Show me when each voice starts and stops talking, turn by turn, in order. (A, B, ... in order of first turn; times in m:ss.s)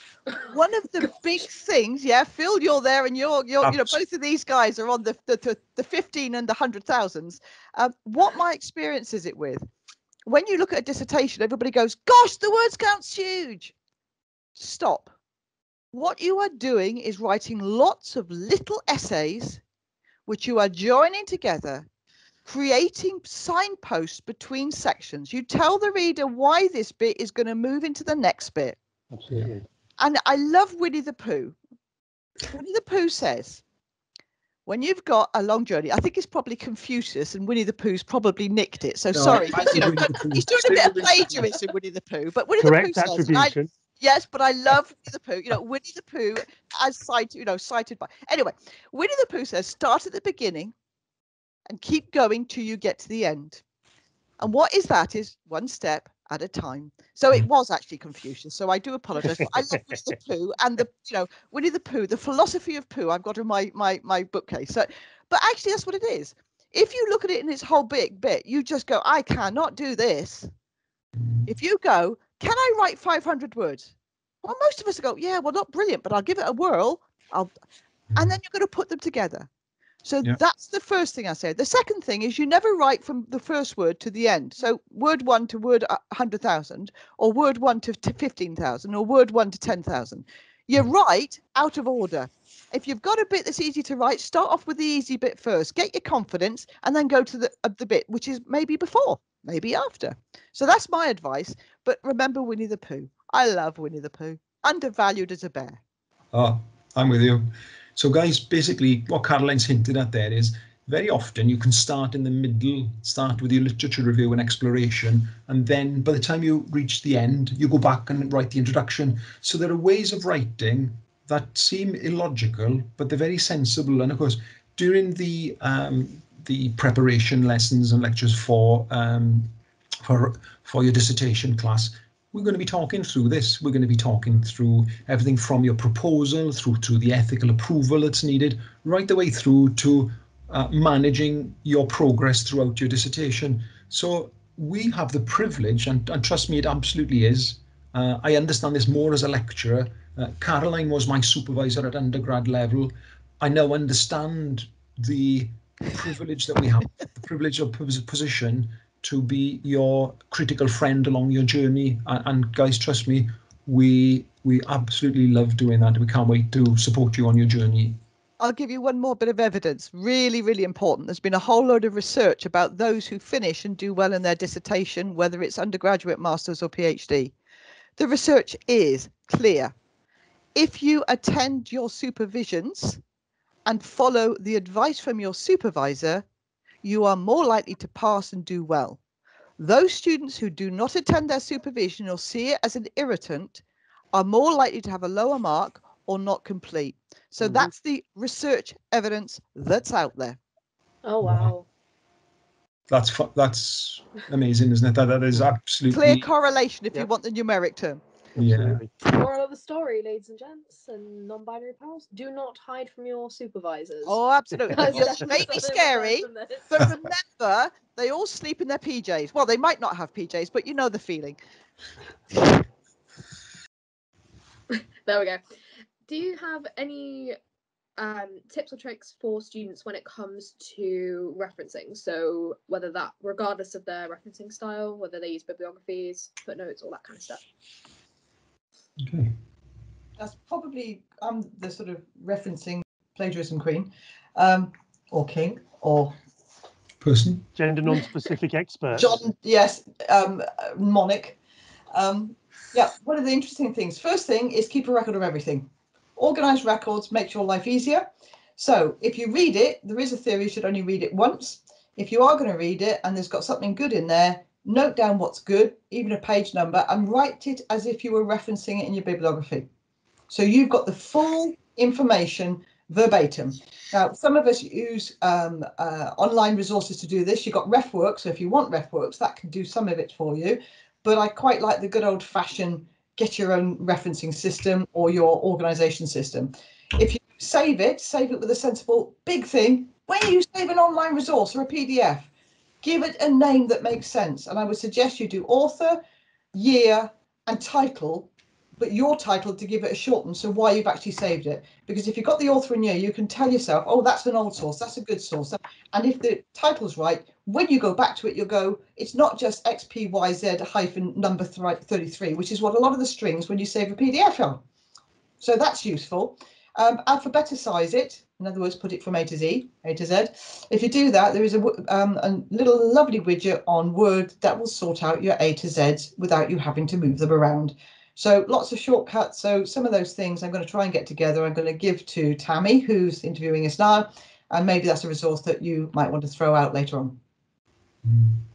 0:00.4-0:09.7 A
0:03.6-0:04.0 B
0:10.3-0:13.7 A
0:14.6-0:15.1 A
0:15.9-0:19.6 A
0:20.3-0:21.9 A
0:22.5-0:28.8 A
0:29.1-0:29.6 C
0:30.0-0:31.6 A
0:32.5-0:33.6 A
0:34.7-0:50.7 A
0:39.1-0:41.5 B
0:42.6-0:43.7 C
0:51.7-0:53.6 A
0:54.4-1:10.5 A
1:11.2-1:11.5 B
1:11.5-1:17.5 A
1:18.2-1:19.5 A
1:20.0-1:45.8 A
1:46.3-2:48.0 B
2:48.4-2:57.4 A
2:58.0-2:59.7 A
3:00.6-3:03.0 A
3:03.7-3:06.2 A
3:06.8-3:09.0 A
3:09.6-3:20.4 A
3:17.4-3:17.7 C
3:21.0-3:21.7 D
3:21.2-3:21.5 B
3:22.9-3:26.2 B
3:25.9-3:28.0 A
3:28.4-3:28.8 B
3:28.4-3:28.9 C
3:29.0-3:34.2 D
3:34.1-3:41.4 A
3:34.7-3:36.7 D
3:44.7-3:45.4 D
3:46.1-3:47.4 D
3:48.0-3:57.4 D
3:59.0-3:59.3 B
4:00.2-4:06.2 A
4:07.0-4:07.5 B
4:07.6-4:09.2 C
4:08.9-4:11.4 A
4:11.9-4:29.7 A
4:30.3-4:52.3 A
4:52.8-4:56.0 A
4:56.5-5:14.6 A
5:15.4-5:37.2 A
5:38.0-5:38.4 B